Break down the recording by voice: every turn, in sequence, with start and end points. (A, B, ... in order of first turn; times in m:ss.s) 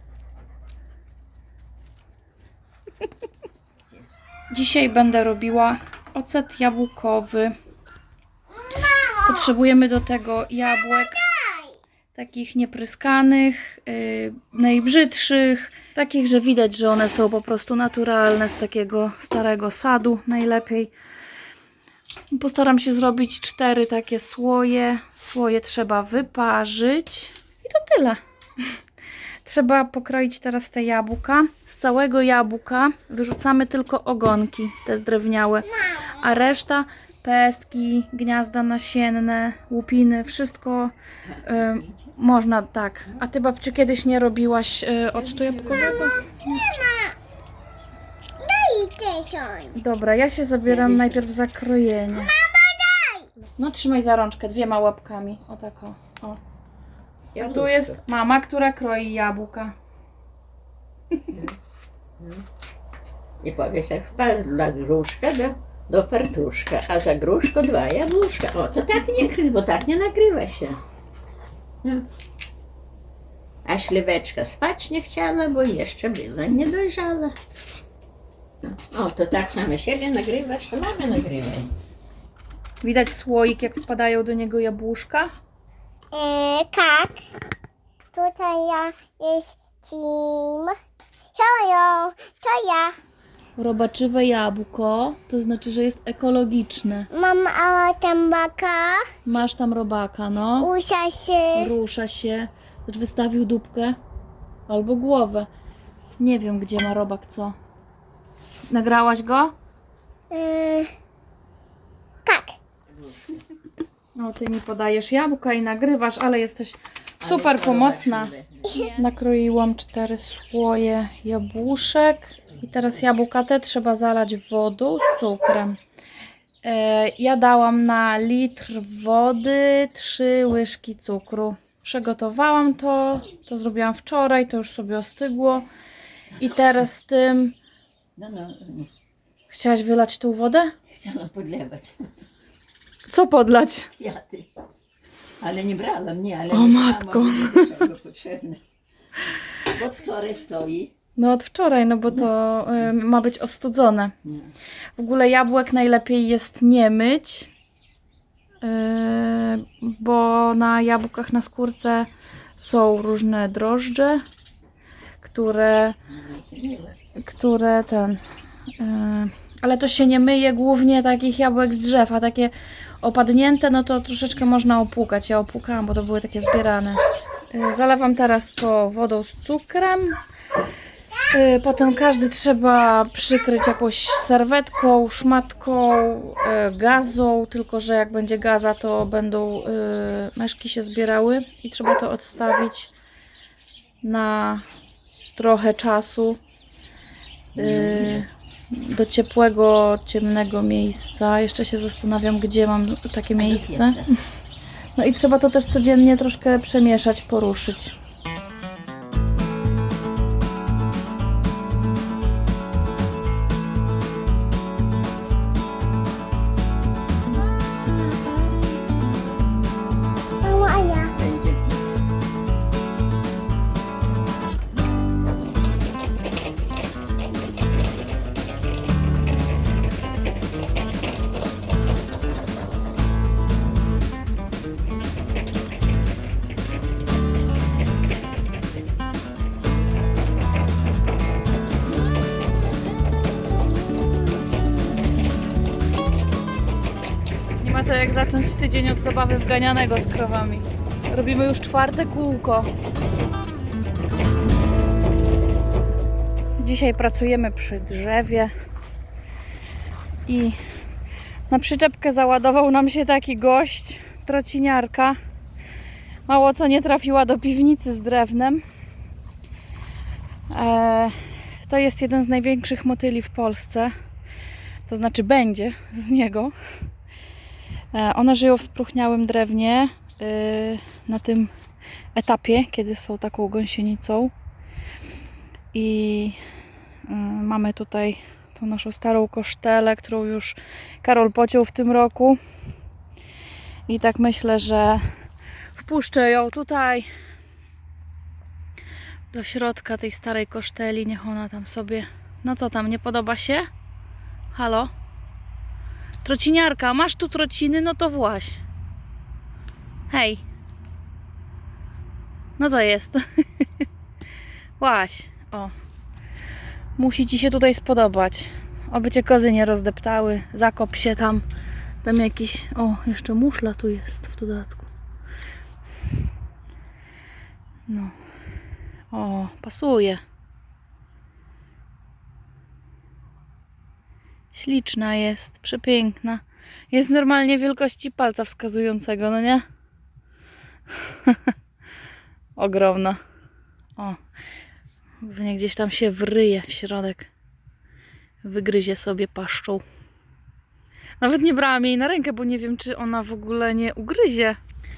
0:04.5-0:07.5 A
0:09.1-0:11.4 A
0:12.1-0:20.9 A
0:22.3-0:28.2 A
0:29.4-0:46.2 A
0:41.4-0:42.0 B
0:45.1-0:46.4 B
0:46.5-0:47.2 C
0:48.4-0:49.8 C
0:49.7-0:52.4 A
0:50.6-0:51.2 B
0:52.2-0:53.3 C
0:53.6-0:56.4 A
0:57.3-0:58.0 B
0:57.4-0:59.7 A
1:01.3-1:01.6 B
1:02.2-1:02.4 B
1:03.4-1:10.8 B
1:13.6-1:17.4 B
1:18.9-1:21.7 B
1:22.8-1:25.3 A
1:26.1-1:27.3 C
1:28.1-1:30.8 C
1:31.3-1:32.9 C
1:33.6-1:37.1 A
1:37.1-1:39.1 C
1:39.2-1:40.7 A
1:40.6-1:41.7 C
1:41.5-1:44.0 A
1:44.7-1:45.5 A
1:46.2-1:47.5 A
1:48.7-1:49.5 A
1:50.3-1:50.9 C
1:52.2-1:52.5 C
1:52.9-1:53.2 B
1:54.2-2:05.8 A
1:57.2-1:58.8 B
2:06.6-2:15.7 A
2:16.4-2:17.5 A
2:18.2-2:18.9 B
2:19.5-2:20.7 A
2:20.9-2:22.1 B
2:23.1-2:23.9 A
2:24.0-2:24.5 B
2:25.4-2:28.6 B
2:26.5-2:27.7 A
2:29.6-2:30.9 B
2:31.2-2:34.1 A
2:35.0-2:37.5 A
2:38.6-2:44.2 A
2:45.2-2:46.0 A
2:46.2-2:47.0 B
2:47.2-2:48.2 A
2:48.8-2:57.0 A
2:57.5-3:00.2 A
3:01.3-3:12.9 A
3:14.0-3:14.6 A
3:15.3-3:16.4 A
3:17.6-3:18.2 B
3:17.6-3:24.2 A
3:23.4-3:24.1 B
3:25.0-3:27.9 A
3:40.4-3:41.2 C
3:41.1-3:42.0 B
4:07.6-4:12.7 A
4:16.6-4:18.5 A
4:20.3-4:20.6 A
4:21.5-4:25.2 A
4:26.3-4:28.6 A
4:30.5-4:33.9 A
4:34.8-4:36.5 A
4:37.9-4:41.5 A
4:42.1-4:44.3 A
4:45.7-4:46.4 A
4:47.1-4:52.4 A
4:53.9-4:55.1 A
4:55.7-4:57.1 A
4:59.3-5:03.7 A
5:04.5-5:04.9 A
5:06.2-5:08.6 A
5:10.1-5:10.4 A
5:12.6-5:13.6 A
5:14.8-5:15.7 A
5:17.0-5:21.4 A
5:22.0-5:24.9 A
5:27.9-5:28.1 A
5:29.1-5:30.2 A
5:34.5-5:39.6 A
5:40.9-5:41.5 A
5:42.6-5:43.2 A
5:45.2-5:47.3 A
5:48.4-5:49.8 A
5:51.2-5:54.6 A